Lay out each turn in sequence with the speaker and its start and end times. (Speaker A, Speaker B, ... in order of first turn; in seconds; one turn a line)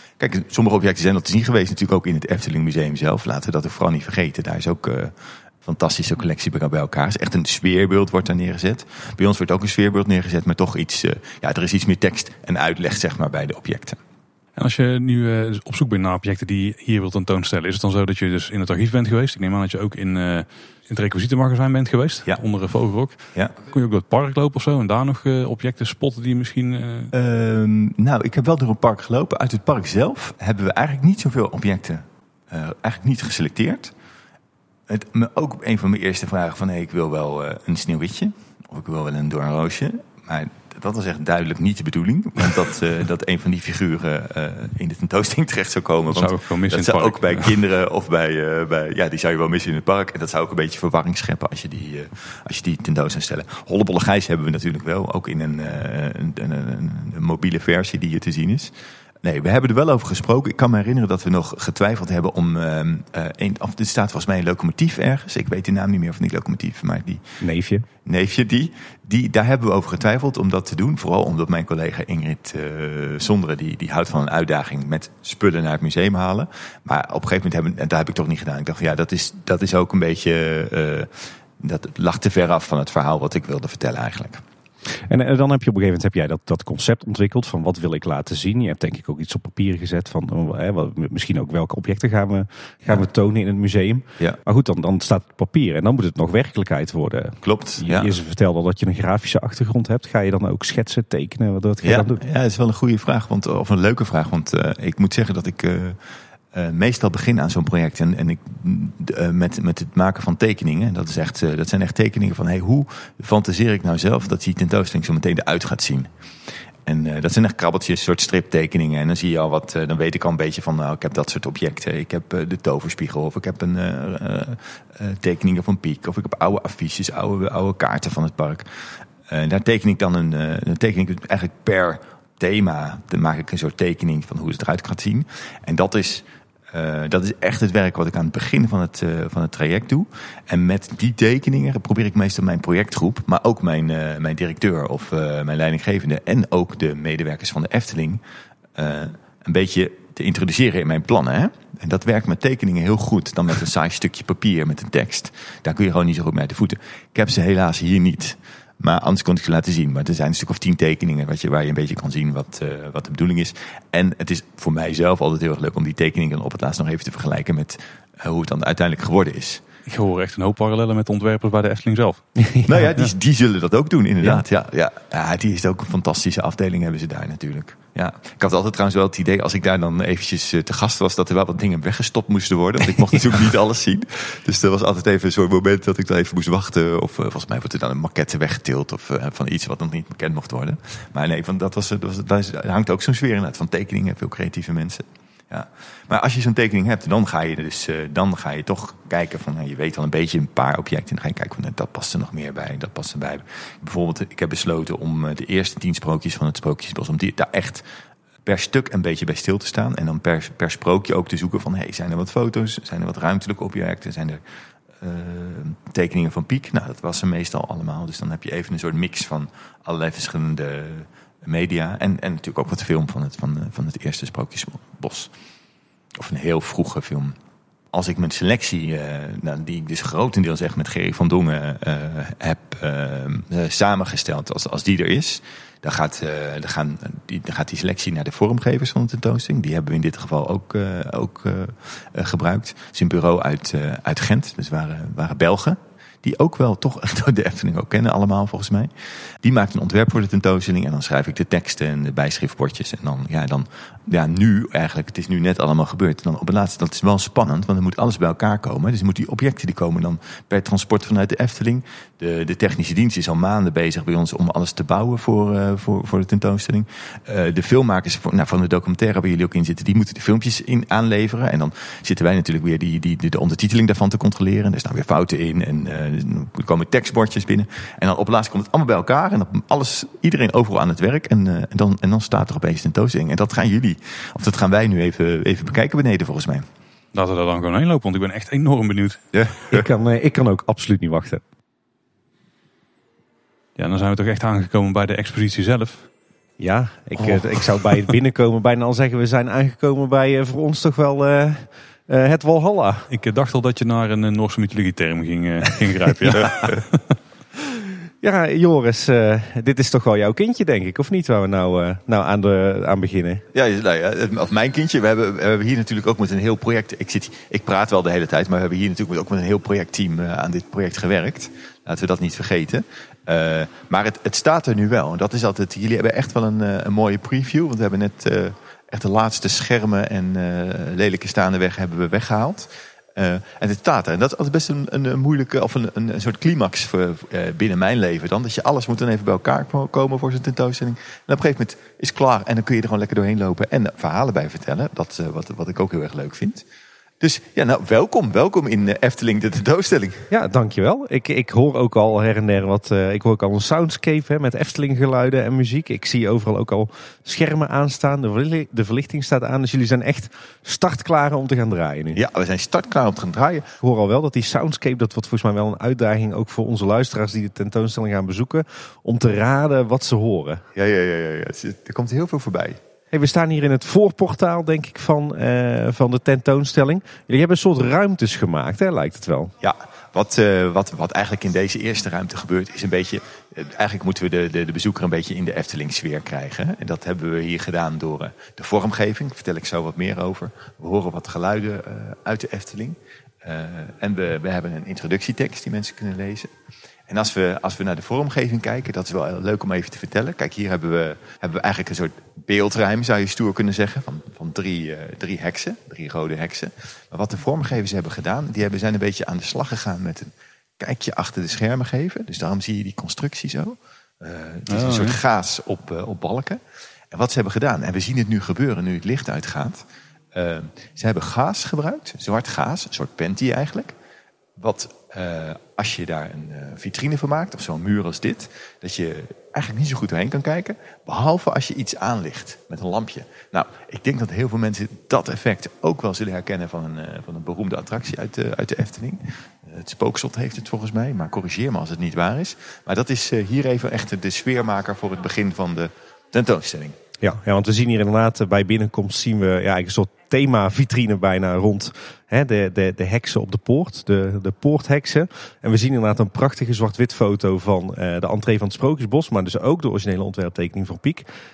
Speaker A: 0.2-5.1
Speaker A: 5.6-14.0
Speaker B: 14.6-27.1
Speaker A: 27.1-33.9
Speaker A: 34.9-58.7
Speaker B: 46.1-47.6
Speaker A: 59.2-67.2
Speaker C: 67.4-67.8
Speaker A: 68.0-84.4
Speaker C: 85.1-102.2
Speaker A: 97.4-98.1
Speaker A: 101.8-106.0
Speaker A: 106.5-116.1
Speaker A: 116.8-128.7
Speaker A: 129.2-148.2
Speaker A: 148.8-169.6
Speaker B: 169.8-172.4
Speaker C: 172.4-172.7
Speaker A: 172.6-207.8
Speaker A: 208.4-214.4
Speaker A: 215.0-225.3
Speaker A: 226.2-227.3
Speaker A: 227.9-248.9
Speaker A: 249.4-286.6
Speaker B: 287.1-289.2
Speaker A: 289.3-289.8
Speaker C: 289.7-291.4
Speaker B: 293.8-296.1
Speaker C: 296.6-303.1
Speaker B: 303.1-307.1
Speaker C: 307.7-313.4
Speaker A: 313.5-346.6
Speaker A: 347.2-350.3
Speaker C: 350.3-362.2
Speaker A: 362.1-363.8
Speaker C: 363.8-370.6
Speaker A: 370.8-372.8
Speaker C: 373.1-379.5
Speaker A: 379.6-396.5
Speaker A: 397.1-416.6
Speaker B: 414.7-415.2
Speaker A: 417.1-423.9
Speaker A: 424.6-446.9
Speaker C: 447.2-461.2